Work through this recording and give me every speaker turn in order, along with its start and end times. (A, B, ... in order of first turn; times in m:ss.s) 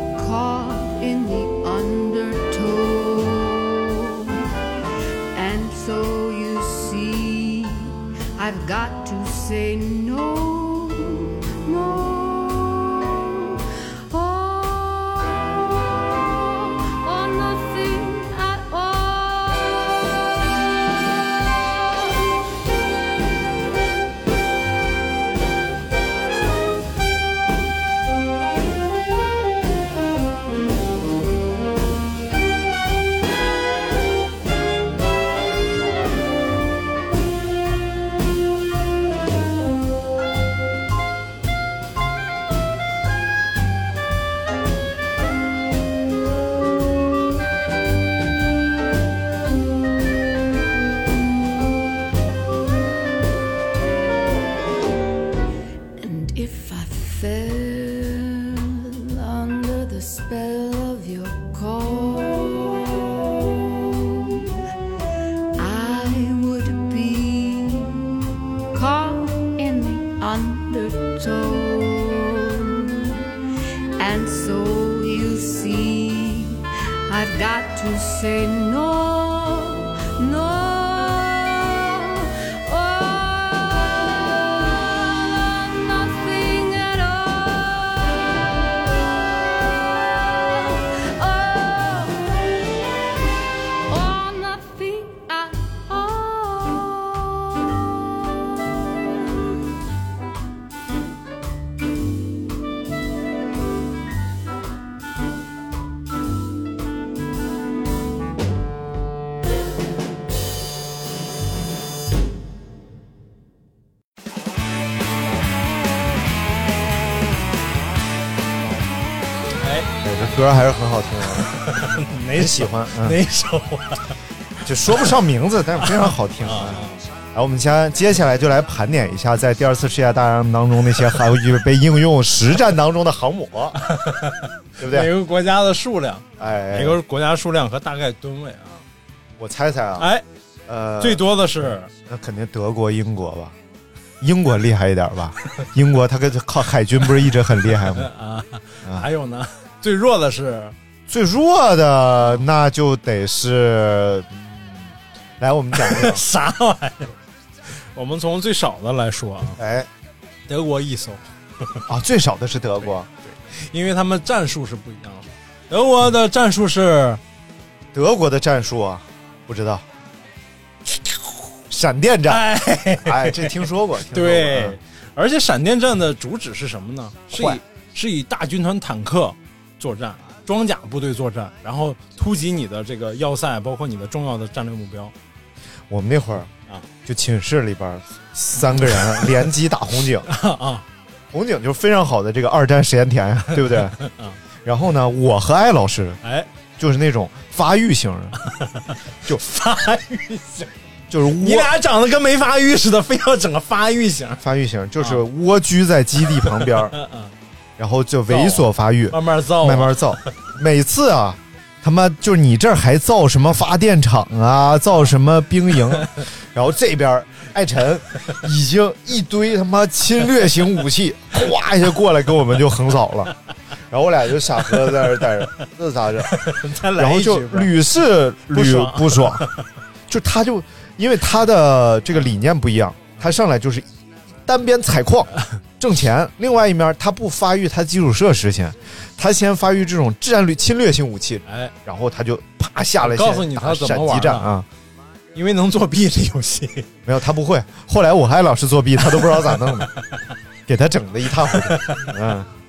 0:00.2-0:04.5 A
0:05.3-0:22.5 A
0:56.0-1:04.4 A
1:05.6-1:08.2 A
1:08.7-1:13.3 A
1:14.0-1:32.7 A
1:33.9-1:37.9 A
1:59.6-1:59.9 B
2:00.0-2:01.5 C
2:01.5-2:04.2 B
2:02.3-2:03.2 C
2:04.6-2:06.8 C
2:05.8-2:07.0 B
2:07.3-2:13.8 C
2:13.8-2:18.8 B
2:14.8-2:15.1 C
2:16.4-2:17.0 C
2:19.4-2:20.1 C
2:20.0-2:20.2 B
2:20.7-2:21.2 C
2:21.0-2:21.9 B
2:22.1-2:23.6 C
2:24.2-2:28.1 C
2:27.9-2:30.8 B
2:31.1-2:36.2 C
2:35.7-2:37.2 B
2:37.7-2:39.6 B
2:39.6-2:39.9 C
2:40.5-2:41.8 B
2:41.9-2:43.1 C
2:42.8-2:47.2 B
2:47.9-2:49.8 C
2:51.7-2:52.5 C
2:52.3-3:05.1 B
2:53.0-2:54.8 C
2:57.3-2:57.6 C
3:05.9-3:06.5 C
3:07.0-3:10.3 C
3:08.8-3:09.1 B
3:10.3-3:10.8 B
3:11.3-3:14.0 C
3:14.0-3:14.4 B
3:14.6-3:16.2 C
3:16.2-3:16.5 B
3:16.8-3:18.4 C
3:18.4-3:24.4 B
3:21.1-3:21.7 C
3:24.4-3:27.0 C
3:26.5-3:27.3 B
3:27.8-3:43.3 C
3:28.3-3:30.3 B
3:43.9-3:46.4 C
3:46.3-3:47.8 B
3:47.0-3:49.5 C
3:48.5-3:49.7 B
3:50.1-3:53.9 C
3:54.5-4:04.7 C
4:01.5-4:01.7 B
4:03.0-4:04.5 B
4:05.3-4:06.9 B
4:07.1-4:09.9 C
4:10.0-4:10.3 B
4:10.7-4:12.5 C
4:11.5-4:12.2 B